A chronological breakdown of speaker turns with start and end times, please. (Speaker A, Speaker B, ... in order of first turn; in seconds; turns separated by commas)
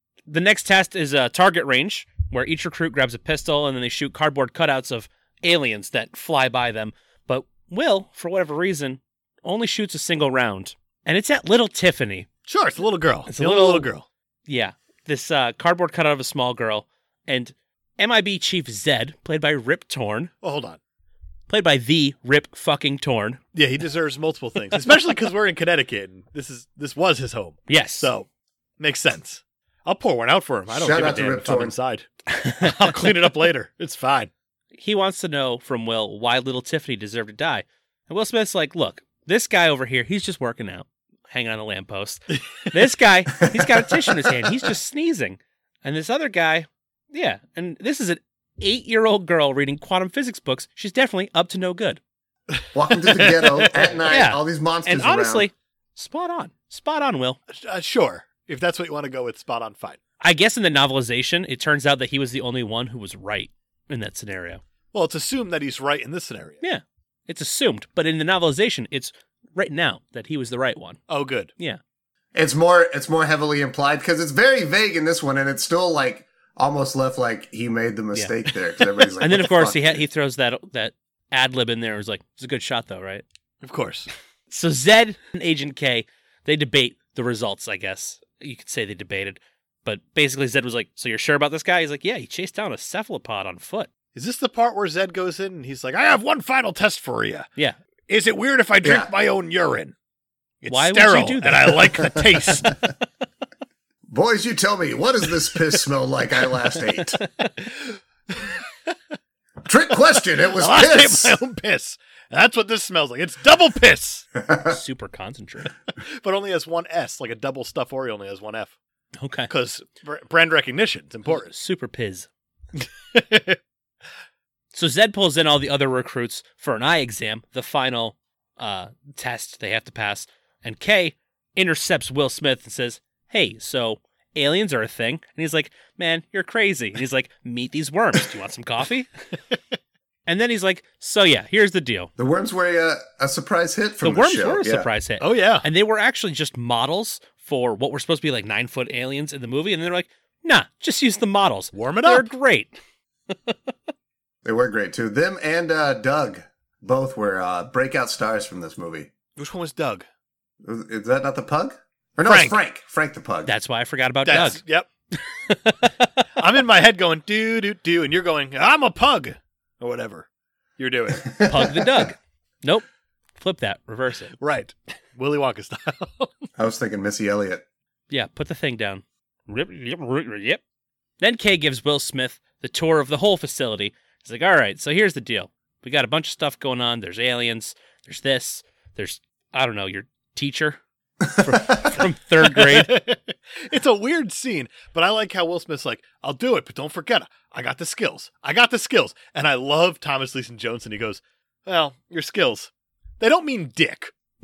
Speaker A: 0.3-12.3, Speaker B: 12.5-14.1, Speaker A: 13.3-13.9, Speaker A: 14.5-20.3, Speaker B: 20.4-20.8, Speaker A: 21.5-23.4, Speaker B: 23.5-28.3, Speaker A: 27.7-28.1, Speaker B: 28.8-32.1, Speaker C: 30.7-31.7, Speaker A: 32.3-32.9, Speaker B: 32.6-34.3, Speaker A: 34.8-52.0, Speaker B: 52.5-54.0, Speaker C: 52.7-55.5, Speaker A: 54.1-57.4, Speaker B: 57.5-60.0, Speaker A: 60.2-64.6, Speaker B: 64.9-66.6, Speaker A: 66.6-71.0, Speaker B: 71.1-71.5, Speaker C: 72.3-80.0, Speaker A: 79.2-83.2, Speaker B: 83.6-84.1, Speaker A: 84.5-93.9, Speaker B: 94.1-97.5, Speaker B: 98.1-99.9, Speaker C: 98.8-99.1, Speaker B: 100.6-102.8, Speaker A: 100.7-102.6, Speaker C: 104.1-107.2, Speaker C: 109.6-111.4, Speaker B: 110.5-114.2, Speaker C: 114.4-114.8, Speaker A: 114.7-115.7, Speaker B: 116.0-118.7, Speaker A: 119.2-119.5, Speaker B: 119.5-121.5, Speaker A: 121.3-122.3, Speaker B: 123.1-123.6, Speaker A: 124.7-139.1, Speaker A: 140.2-142.1, Speaker C: 142.2-144.9, Speaker A: 144.0-152.8, Speaker B: 145.2-145.6, Speaker B: 151.7-152.3, Speaker C: 154.4-159.1, Speaker B: 159.4-160.1, Speaker C: 160.6-163.5, Speaker B: 162.2-162.6, Speaker A: 163.4-164.6, Speaker B: 164.2-164.9, Speaker A: 165.1-166.1, Speaker B: 166.4-170.3, Speaker B: 170.8-171.7, Speaker C: 171.3-172.1, Speaker A: 171.4-172.8, Speaker A: 173.4-174.3, Speaker B: 174.4-176.5, Speaker C: 176.6-177.6, Speaker A: 178.1-180.6, Speaker A: 181.2-190.8, Speaker A: 191.3-192.9, Speaker C: 191.4-191.9, Speaker B: 192.4-204.1